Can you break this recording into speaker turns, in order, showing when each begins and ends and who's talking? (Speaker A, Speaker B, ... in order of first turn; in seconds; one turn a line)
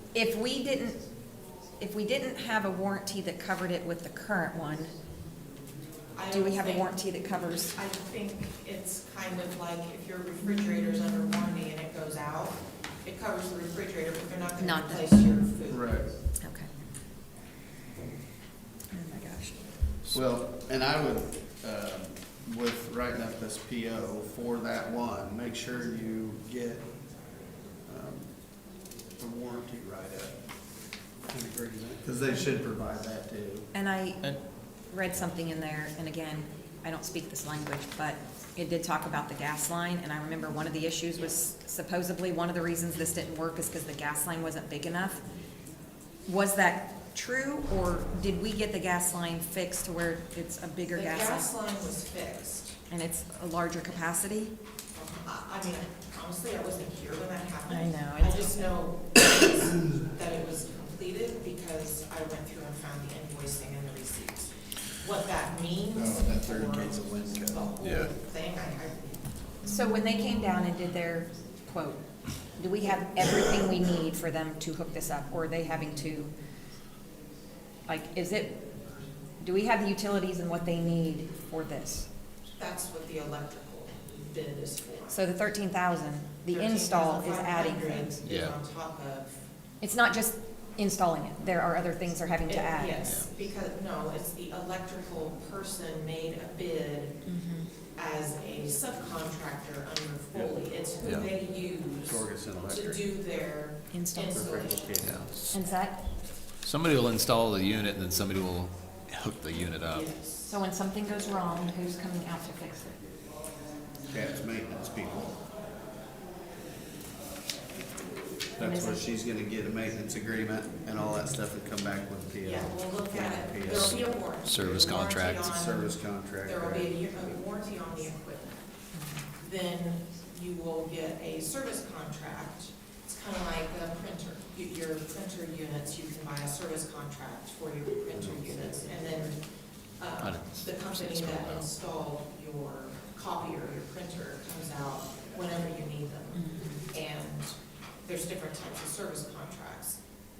Speaker A: 0.1-1.0
Speaker A: 1.8-4.9
Speaker B: 6.1-6.9
Speaker A: 6.3-7.8
Speaker B: 7.7-16.0
Speaker A: 14.6-15.1
Speaker C: 15.7-16.1
Speaker A: 16.4-16.7
Speaker A: 18.9-19.6
Speaker C: 20.1-26.9
Speaker C: 27.9-28.3
Speaker C: 29.2-30.4
Speaker C: 31.3-33.7
Speaker A: 33.7-34.2
Speaker A: 34.9-45.2
Speaker A: 46.2-51.5
Speaker B: 50.9-52.8
Speaker A: 52.9-54.5
Speaker B: 54.9-69.2
Speaker A: 57.7-58.6
Speaker C: 65.9-67.7
Speaker D: 67.8-68.1
Speaker A: 69.7-72.0
Speaker A: 72.6-76.3
Speaker A: 77.9-78.6
Speaker A: 79.4-82.1
Speaker B: 82.6-85.2
Speaker A: 85.1-88.2
Speaker B: 86.5-89.4
Speaker D: 88.2-88.5
Speaker A: 89.8-93.0
Speaker B: 92.5-97.2
Speaker A: 97.2-97.7
Speaker B: 98.0-104.8
Speaker D: 101.0-101.3
Speaker C: 102.0-103.0
Speaker A: 103.9-104.5
Speaker C: 104.3-105.4
Speaker D: 105.0-105.6
Speaker A: 105.5-106.0
Speaker D: 106.6-110.1
Speaker B: 109.9-110.5
Speaker A: 110.4-113.0
Speaker C: 114.1-115.4
Speaker A: 118.6-119.0
Speaker C: 118.6-124.0
Speaker A: 121.0-121.3
Speaker B: 122.4-128.6
Speaker D: 124.4-125.6
Speaker C: 125.5-127.0
Speaker A: 128.9-129.2
Speaker B: 129.4-139.4
Speaker C: 138.1-138.8
Speaker B: 140.0-147.5
Speaker D: 140.2-141.7
Speaker A: 146.3-146.8
Speaker B: 148.0-150.0